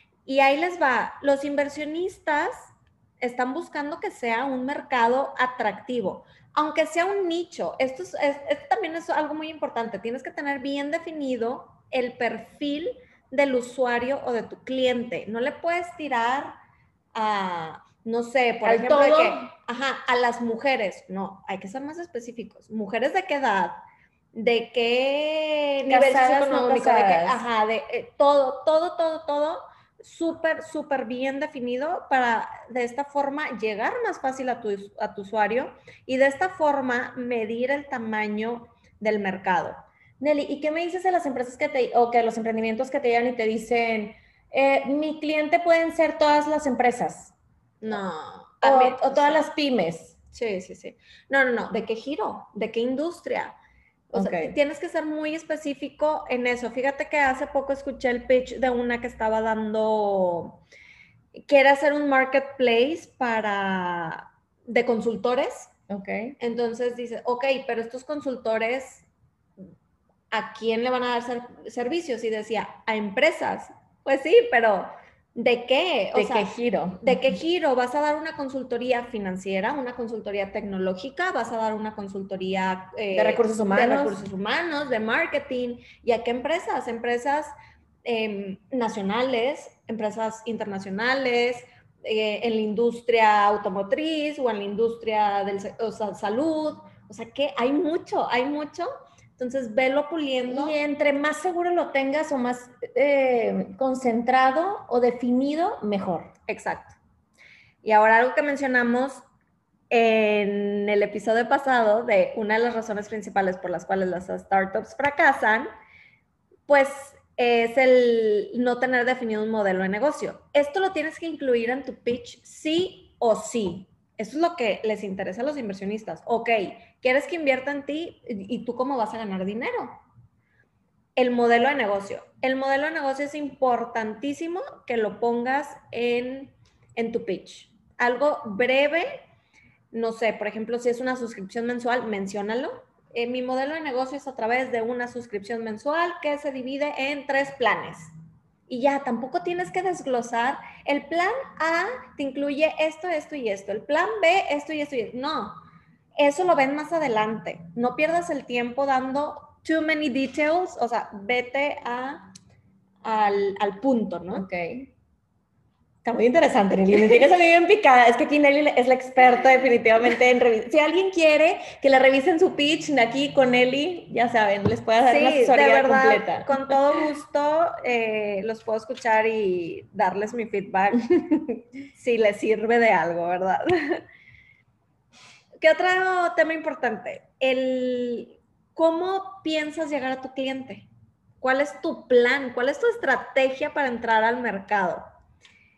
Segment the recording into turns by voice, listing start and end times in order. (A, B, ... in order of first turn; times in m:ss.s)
0:00.3-0:16.6 A
0:17.1-0:23.8 A
0:18.6-0:19.5 B
0:24.3-0:39.8 A
0:25.9-0:27.4 B
0:40.2-0:47.3 B
0:47.8-0:49.4 A
0:48.6-0:50.2 B
0:50.3-0:53.6 A
0:54.1-0:54.5 B
0:54.1-1:00.6 A
1:01.4-1:05.7 A
1:05.9-1:06.4 B
1:06.4-1:09.1 A
1:10.3-1:27.5 A
1:16.1-1:17.2 B
1:23.1-1:24.2 B
1:28.0-1:40.8 A
1:40.5-1:46.3 B
1:46.5-1:47.0 A
1:47.8-1:49.2 A
1:49.9-1:55.7 A
1:56.7-2:10.0 A
2:11.2-2:19.2 A
2:19.9-2:28.1 A
2:28.7-2:35.6 A
2:36.2-2:42.3 A
2:43.0-2:44.5 A
2:44.3-2:44.9 B
2:46.0-2:56.8 B
2:55.0-3:01.1 A
3:01.1-3:01.6 B
3:01.9-3:04.0 A
3:05.6-3:10.9 A
3:11.4-3:15.0 A